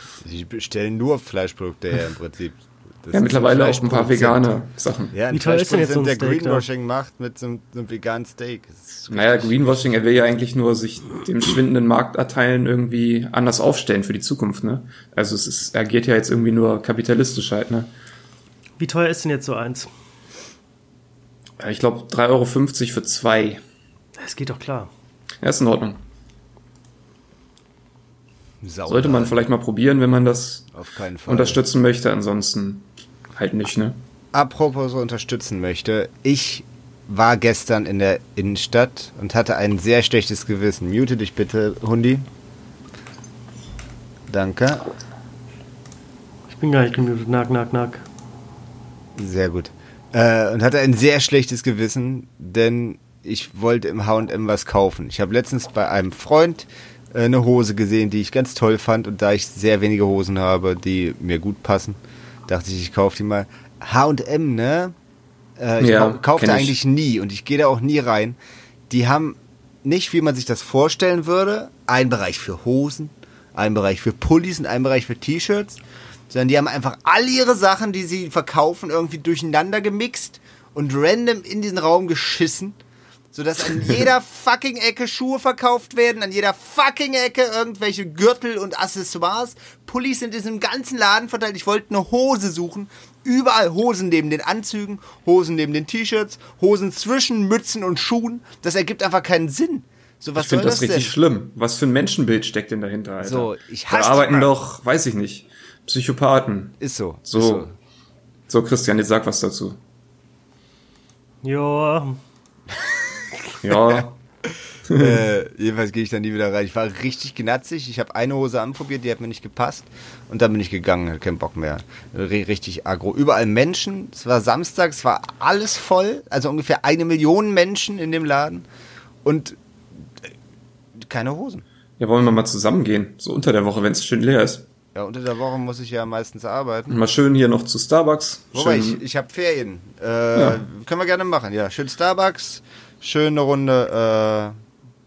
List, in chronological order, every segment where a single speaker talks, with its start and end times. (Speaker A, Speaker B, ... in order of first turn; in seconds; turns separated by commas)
Speaker A: 0.2-4.5, Speaker B: 3.1-5.1, Speaker A: 5.1-9.9, Speaker C: 5.3-6.7, Speaker B: 9.1-17.9, Speaker C: 18.8-19.9, Speaker B: 21.6-23.6, Speaker C: 24.2-24.9, Speaker B: 25.4-26.0, Speaker A: 28.6-29.4, Speaker B: 28.9-30.7, Speaker A: 30.7-31.6, Speaker B: 31.3-34.0, Speaker A: 34.3-42.3, Speaker A: 44.3-44.9, Speaker C: 46.5-48.0, Speaker A: 49.1-64.9, Speaker A: 65.6-68.4, Speaker B: 65.8-66.8, Speaker A: 68.9-82.8, Speaker A: 83.3-101.1, Speaker B: 100.3-107.7, Speaker A: 103.2-104.5, Speaker A: 106.8-107.7, Speaker B: 108.5-109.8, Speaker C: 111.4-112.2, Speaker B: 113.6-114.2, Speaker A: 113.7-114.0, Speaker B: 114.9-115.2, Speaker A: 115.0-128.7, Speaker A: 129.2-130.3, Speaker A: 130.9-131.6, Speaker B: 132.0-134.7, Speaker A: 134.9-137.0, Speaker B: 136.9-139.0, Speaker A: 138.5-144.6, Speaker B: 140.3-140.6